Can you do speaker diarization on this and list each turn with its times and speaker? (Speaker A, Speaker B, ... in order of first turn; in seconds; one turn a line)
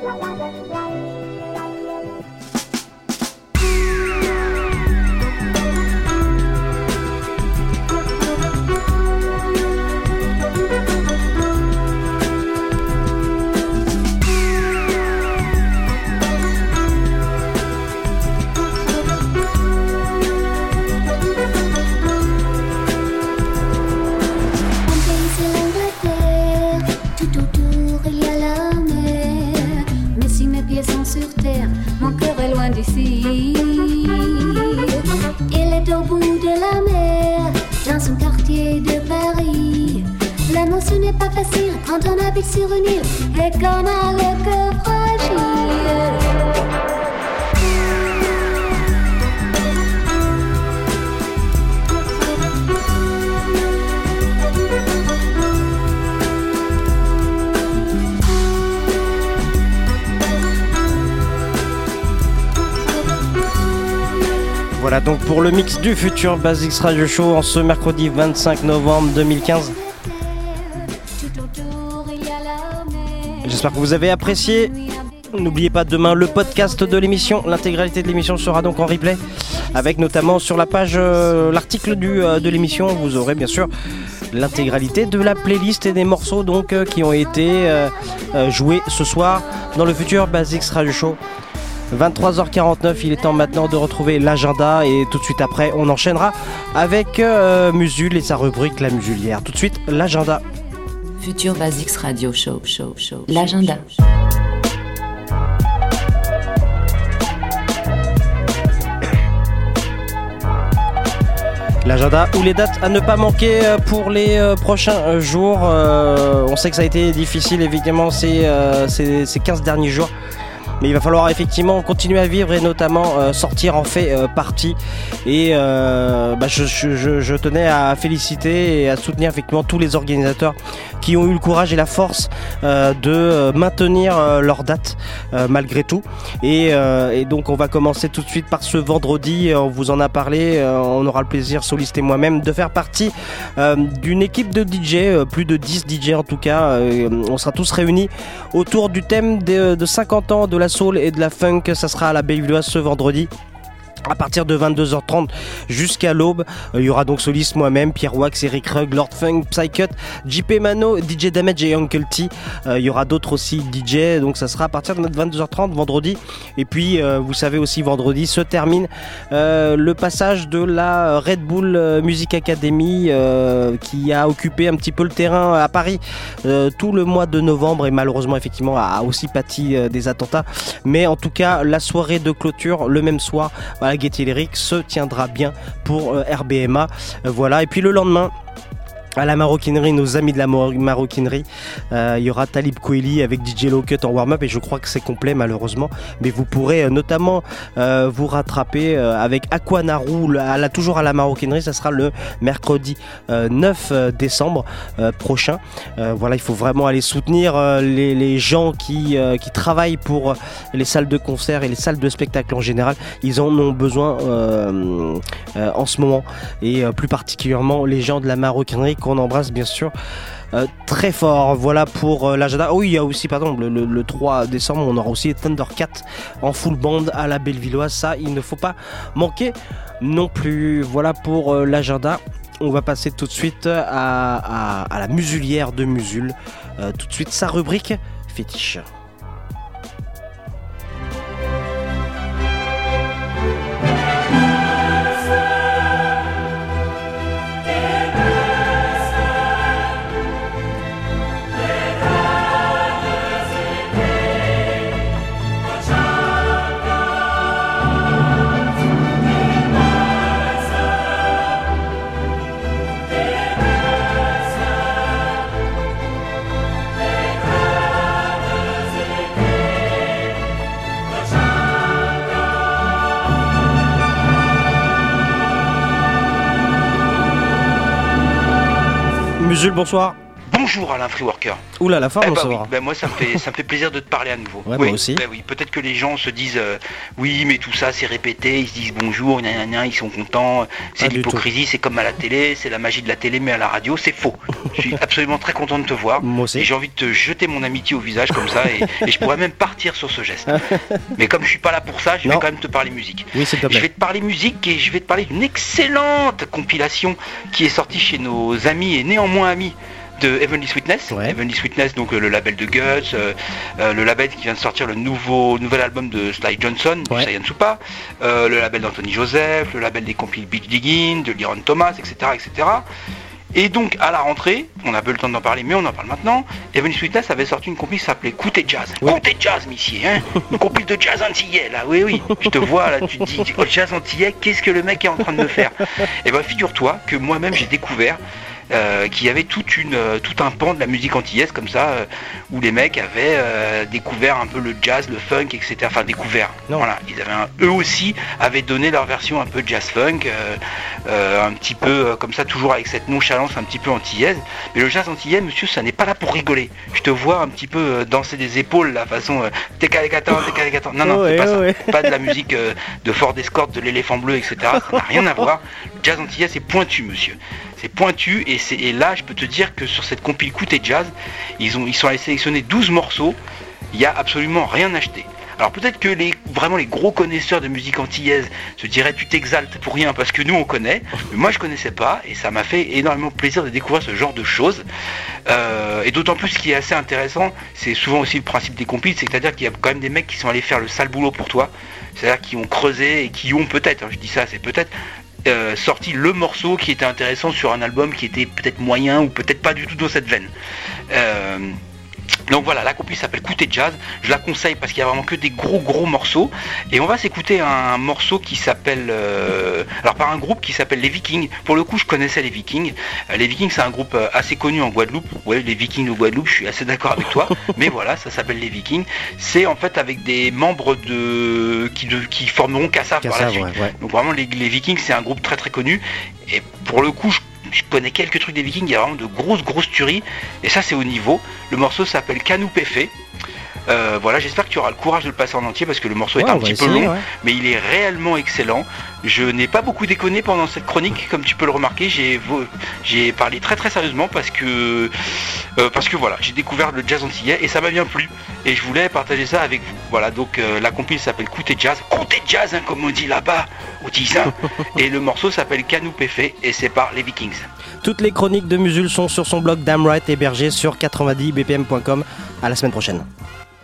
Speaker A: 24.9-34.7
Speaker A: 35.5-46.2
Speaker B: 64.8-69.7
Speaker A: 71.2-73.3
Speaker B: 73.4-74.7
Speaker B: 75.3-83.7
Speaker B: 84.3-91.2
Speaker B: 91.9-100.4
Speaker C: 101.2-103.9
Speaker B: 111.8-120.1
Speaker B: 120.8-153.3
Speaker B: 154.1-188.3
Speaker B: 189.2-219.9
Speaker B: 220.5-238.8
Speaker B: 279.4-280.1
Speaker D: 280.5-281.6
Speaker B: 281.8-282.7
Speaker D: 282.2-300.6
Speaker B: 284.7-285.2
Speaker B: 291.0-291.4
Speaker B: 296.2-296.7
Speaker B: 300.5-300.9
Speaker D: 301.1-322.9
Speaker B: 303.3-303.9
Speaker B: 311.1-311.4
Speaker D: 323.5-338.2
Speaker D: 338.7-373.4
Speaker B: 361.0-362.1
Speaker B: 364.8-365.2
Speaker D: 373.9-384.8
Speaker D: 385.5-394.9
Speaker D: 395.4-400.5
Speaker D: 401.1-401.8
Speaker D: 402.5-433.1
Speaker B: 423.2-423.9
Speaker D: 433.9-445.1
Speaker B: 436.4-437.2
Speaker D: 445.8-457.7
Speaker B: 458.0-463.3